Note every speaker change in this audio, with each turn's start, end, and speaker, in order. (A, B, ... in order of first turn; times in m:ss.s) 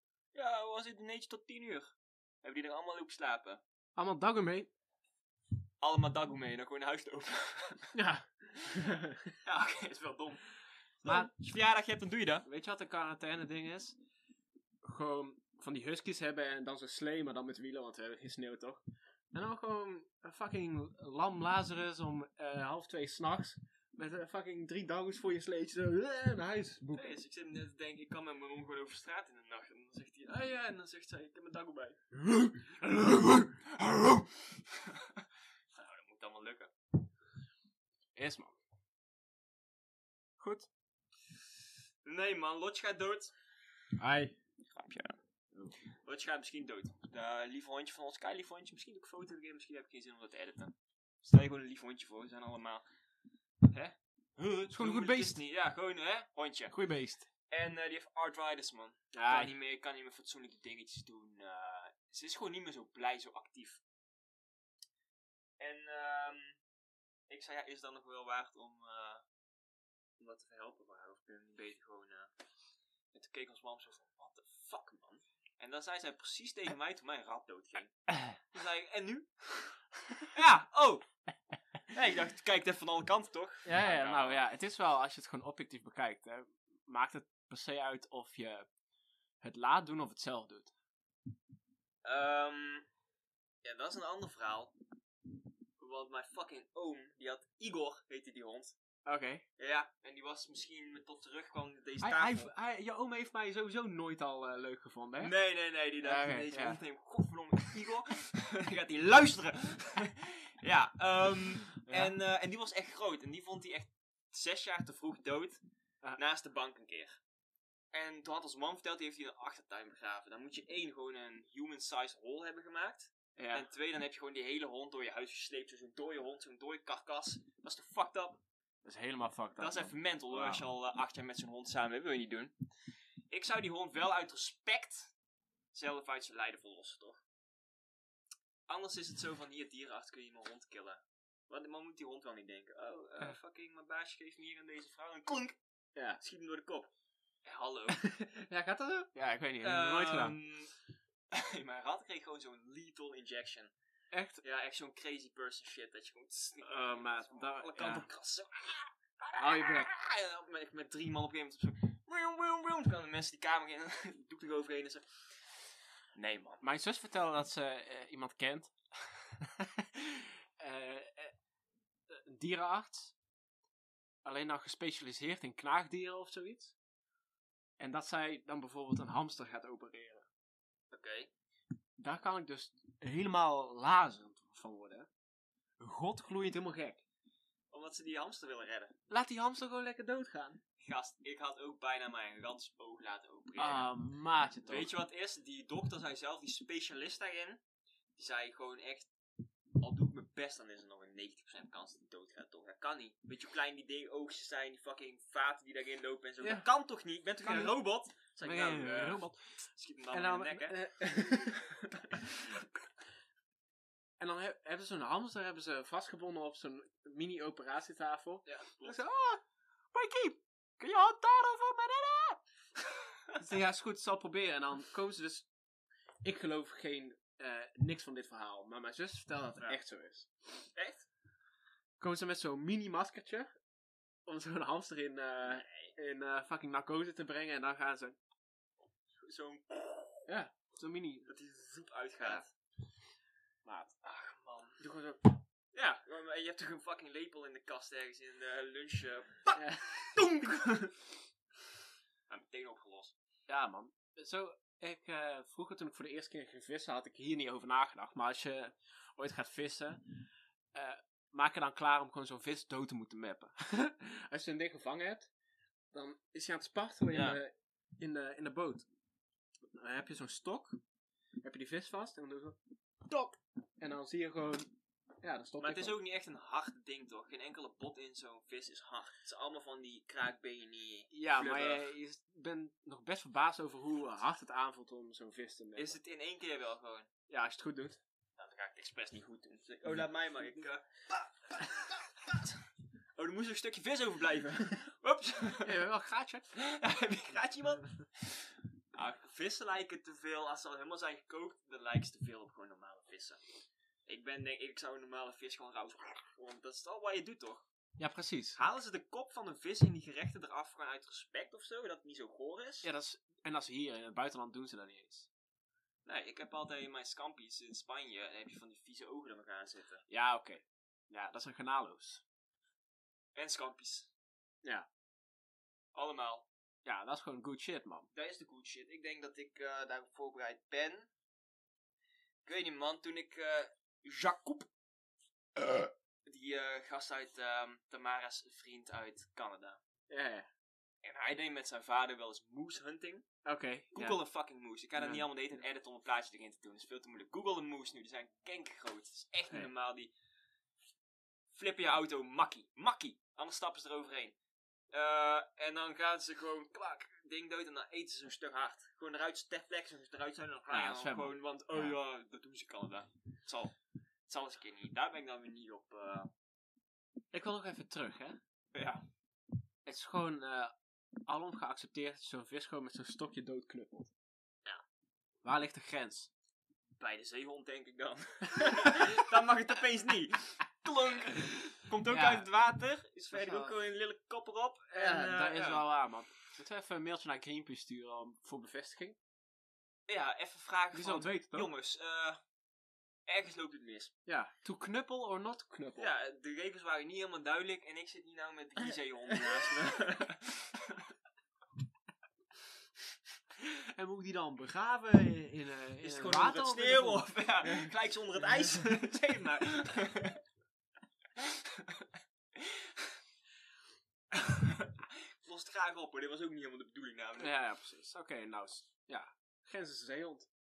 0:00.3-0:03.6 A
0:04.0-0:04.7 B
0:05.8-0:08.0 A
0:07.9-0:09.4 B
0:09.4-0:10.4 A
0:11.0-0:12.4 A
0:11.0-0:11.3 B
0:12.4-0:14.0 B
0:14.8-0:27.1 B
0:26.9-0:32.0 A
0:32.2-0:33.6 B
0:33.8-0:36.7 A
0:38.2-0:38.6 B
0:40.4-0:40.7 B
0:42.0-0:43.3 A
0:44.0-0:44.4 B
0:44.7-0:45.2 A
0:46.0-0:52.8 A
0:53.6-0:56.8 A
0:54.7-0:55.4 B
0:56.7-0:57.3 B
0:57.5-1:03.8 A
0:59.1-0:59.5 B
1:05.6-1:06.6 A
1:07.3-1:09.2 A
1:10.2-1:12.3 A
1:13.1-1:19.8 A
1:20.3-1:21.0 A
1:21.9-1:24.4 A
1:23.6-1:28.7 B
1:29.4-1:30.7 B
1:32.0-1:32.9 A
1:33.6-1:34.7 A
1:35.8-1:38.8 A
1:39.1-1:39.4 B
1:39.6-1:42.5 A
1:42.0-1:45.3 B
1:45.2-1:55.6 A
1:46.0-1:46.8 B
1:51.8-1:52.2 B
1:56.2-1:57.2 A
1:57.9-2:08.4 A
2:03.4-2:03.7 B
2:08.8-2:10.7 B
2:09.6-2:12.5 A
2:13.3-2:15.1 A
2:15.7-2:17.2 A
2:18.7-2:25.6 A
2:26.2-2:26.9 A
2:27.4-2:29.1 A
2:29.0-2:30.4 B
2:29.6-2:30.7 A
2:31.3-2:33.7 A
2:34.1-2:34.4 B
2:34.4-2:45.1 A
2:36.6-2:38.1 B
2:39.4-2:39.9 B
2:46.2-2:46.6 A
2:46.6-2:51.3 B
2:52.1-2:53.2 B
2:54.2-2:56.8 B
2:57.8-3:00.3 B
3:00.9-3:01.3 A
3:02.0-3:05.1 B
3:05.8-3:07.0 B
3:07.7-3:09.0 A
3:09.1-3:10.6 B
3:10.8-3:13.9 A
3:13.6-3:14.9 B
3:14.7-3:17.6 A
3:18.2-3:19.1 A
3:19.8-3:30.8 A
3:26.4-3:26.7 B
3:27.4-3:27.8 B
3:28.4-3:29.4 B
3:30.1-3:32.6 B
3:31.3-3:32.6 A
3:34.2-3:39.4 B
3:38.5-3:39.0 A
3:39.9-3:42.4 B
3:43.3-3:45.5 B
3:46.2-3:50.3 B
3:50.8-3:51.1 A
3:52.0-3:53.5 B
3:54.3-3:58.2 B
3:55.4-3:56.0 A
3:59.2-4:00.3 A
4:00.3-4:01.3 B
4:01.3-4:02.5 A
4:03.6-4:03.9 B
4:04.0-4:04.8 A
4:04.8-4:05.4 B
4:05.7-4:11.0 A
4:09.5-4:10.2 B
4:12.3-4:13.2 A
4:13.5-4:20.0 B
4:20.7-4:25.3 B
4:25.9-4:28.9 B
4:27.1-4:27.4 A
4:29.7-4:30.8 B
4:31.4-4:34.7 B
4:35.2-4:36.0 B
4:35.6-4:41.9 A
4:41.1-4:46.0 B
4:45.8-4:47.1 A
4:47.3-4:48.0 B
4:48.4-4:50.8 A
4:51.5-4:52.5 A
4:53.2-4:55.8 A
4:55.6-4:56.5 B
4:56.5-5:03.4 A
5:04.1-5:07.7 A
5:08.0-5:08.6 B
5:08.6-5:12.9 A
5:12.8-5:15.3 B
5:16.1-5:20.0 A
5:20.1-5:22.2 B
5:23.4-5:24.1 A
5:26.0-5:26.5 A
5:26.8-5:28.1 B
5:28.1-5:31.1 A
5:32.4-5:34.7 A
5:36.3-5:39.8 A
5:40.1-5:40.5 B
5:41.0-5:43.3 A
5:43.4-5:44.2 B
5:43.9-5:50.1 A
5:45.0-5:45.2 B
5:51.5-5:54.4 A
5:54.9-6:03.8 A
6:00.7-6:02.0 B
6:04.3-6:06.3 A
6:07.3-6:08.4 B
6:08.7-6:09.0 A
6:09.9-6:10.7 B
6:11.3-6:14.1 B
6:15.4-6:16.3 B
6:17.0-6:25.9 A
6:18.6-6:19.2 B
6:22.1-6:22.5 B
6:23.3-6:23.8 B
6:24.9-6:29.2 B
6:30.1-6:32.4 A
6:30.9-6:31.7 B
6:33.3-6:34.1 A
6:34.3-6:36.1 B
6:36.0-6:41.1 A
6:39.3-6:39.9 B
6:43.6-6:47.9 B
6:46.0-6:50.4 A
6:51.4-6:53.1 A
6:54.3-6:57.6 A
6:57.4-7:00.5 B